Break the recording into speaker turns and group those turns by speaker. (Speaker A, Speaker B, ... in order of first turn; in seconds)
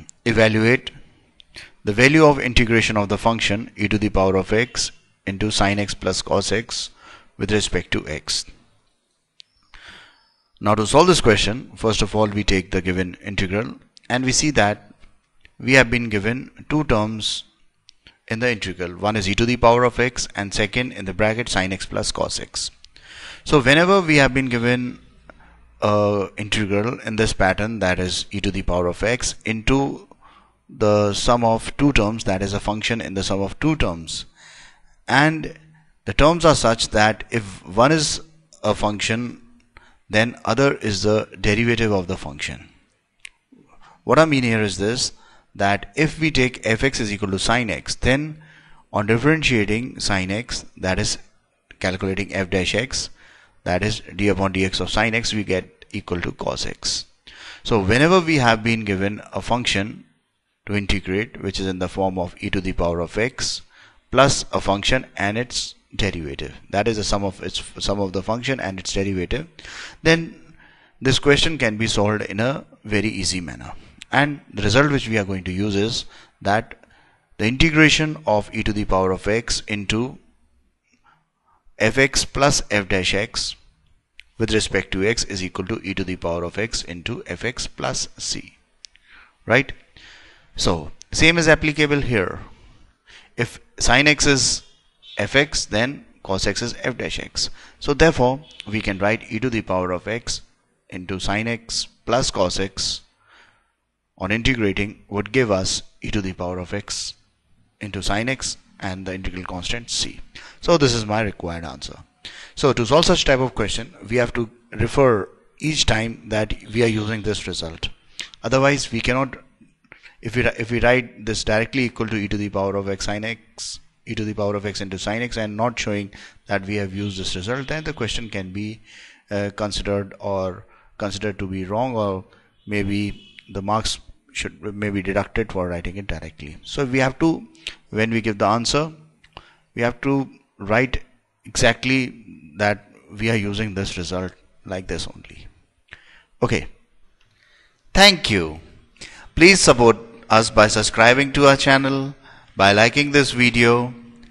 Speaker A: 0.2-0.9, 1.8-8.5, 10.6-14.9, 15.6-17.4, 18.3-22.7, 23.4-25.0, 25.8-30.1, 30.7-34.3, 35.1-39.4, 40.1-42.7, 44.0-48.4, 48.9-51.2, 51.8-53.1, 53.6-57.1, 57.6-60.1, 60.6-76.8, 77.4-80.2, 81.8-83.6, 84.4-88.6, 89.4-89.8, 90.5-92.5, 93.3-94.7, 95.2-103.0, 104.2-107.2, 107.8-119.4, 120.2-138.9, 139.7-145.5, 146.4-146.7, 147.9-148.6, 149.3-153.9